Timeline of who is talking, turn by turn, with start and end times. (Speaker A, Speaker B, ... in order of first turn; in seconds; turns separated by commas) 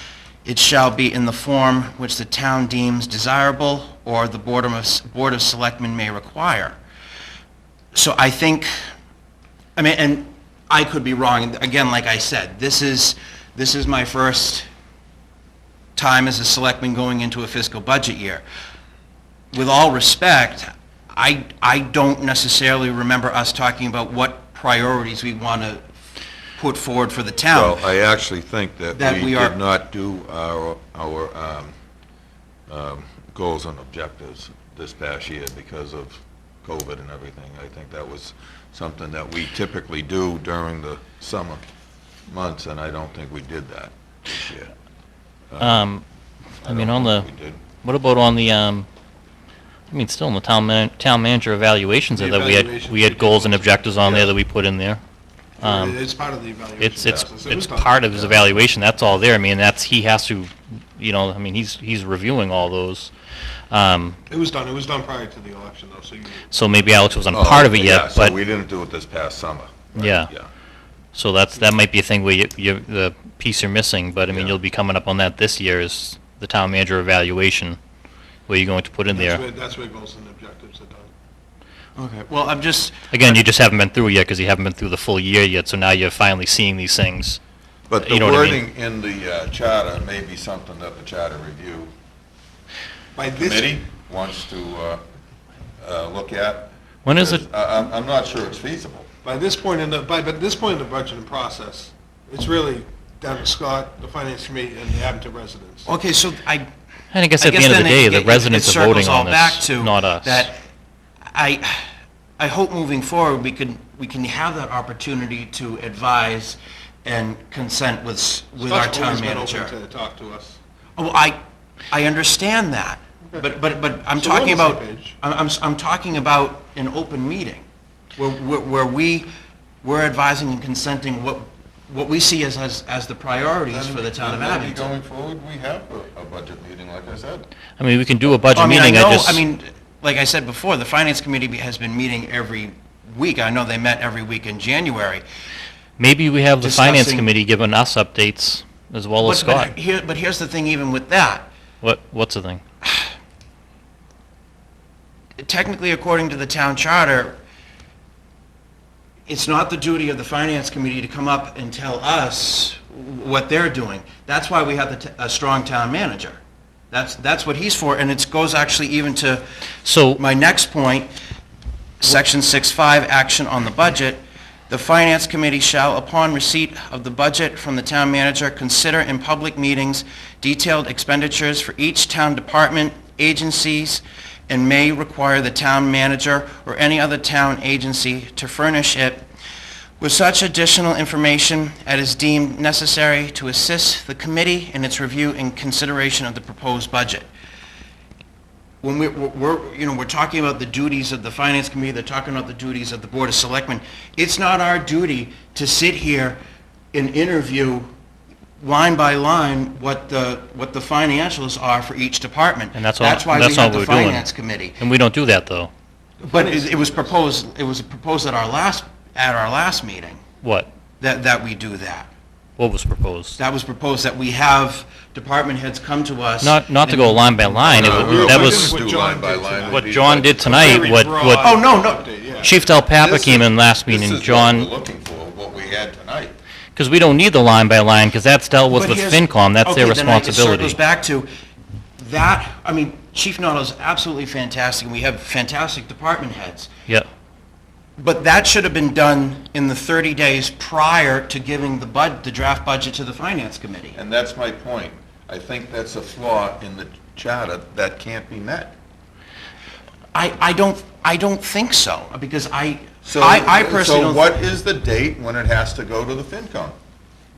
Speaker A: 0.5-6.8, Speaker A: 7.9-8.7, Speaker A: 9.8-14.7, Speaker A: 16.0-18.4, Speaker A: 19.5-25.9, Speaker A: 26.6-27.9, Speaker B: 27.5-31.8, Speaker A: 28.9-29.6, Speaker B: 32.7-41.6, Speaker B: 42.3-44.7, Speaker B: 45.5-45.8, Speaker C: 45.6-46.0, Speaker B: 46.6-47.6, Speaker C: 46.7-47.3, Speaker C: 47.8-48.9, Speaker C: 49.9-55.0, Speaker D: 52.1-54.3, Speaker D: 55.6-58.3, Speaker C: 55.6-56.0, Speaker C: 56.8-63.1, Speaker B: 58.3-58.6, Speaker C: 63.7-64.2, Speaker D: 64.3-66.5, Speaker C: 66.5-68.4, Speaker B: 67.3-70.5, Speaker C: 70.0-70.3, Speaker C: 71.1-77.8, Speaker B: 74.3-74.6, Speaker C: 78.5-79.4, Speaker D: 79.1-81.1, Speaker A: 82.0-83.0, Speaker C: 83.1-87.4, Speaker B: 87.9-91.9, Speaker C: 88.0-88.6, Speaker D: 93.2-93.8, Speaker B: 93.4-95.0, Speaker B: 95.8-99.1, Speaker C: 97.0-97.4, Speaker D: 99.2-105.9, Speaker A: 105.9-106.7, Speaker C: 107.1-110.5, Speaker A: 107.4-110.7, Speaker A: 111.3-111.9, Speaker A: 112.4-119.7, Speaker D: 118.6-120.6, Speaker A: 121.0-121.4, Speaker A: 121.9-127.6, Speaker D: 124.2-125.2, Speaker A: 128.2-129.3, Speaker A: 129.8-134.9, Speaker B: 133.7-137.5, Speaker C: 137.8-139.4, Speaker A: 138.5-145.2, Speaker C: 146.0-149.7, Speaker A: 146.6-147.3, Speaker A: 149.2-151.5, Speaker C: 151.8-152.6, Speaker A: 155.4-157.4, Speaker A: 159.3-166.4, Speaker A: 166.9-169.4, Speaker C: 169.8-170.2, Speaker A: 170.2-171.1, Speaker A: 172.0-189.2, Speaker A: 190.0-197.3, Speaker A: 198.8-206.4, Speaker A: 206.9-207.9, Speaker A: 208.6-214.8, Speaker C: 212.7-214.2, Speaker C: 214.8-215.7, Speaker D: 216.2-217.1, Speaker A: 216.3-220.2, Speaker C: 220.4-220.7, Speaker A: 221.0-222.1, Speaker C: 222.6-223.4, Speaker A: 223.4-228.2, Speaker C: 226.4-228.8, Speaker B: 227.7-231.0, Speaker D: 227.8-232.6, Speaker C: 229.7-231.6, Speaker A: 231.4-232.1, Speaker C: 232.4-234.7, Speaker B: 232.9-236.3, Speaker C: 236.7-240.8, Speaker A: 238.7-241.3, Speaker A: 242.0-246.7, Speaker A: 248.0-254.0, Speaker B: 253.9-258.8, Speaker A: 260.1-264.2, Speaker B: 263.0-266.7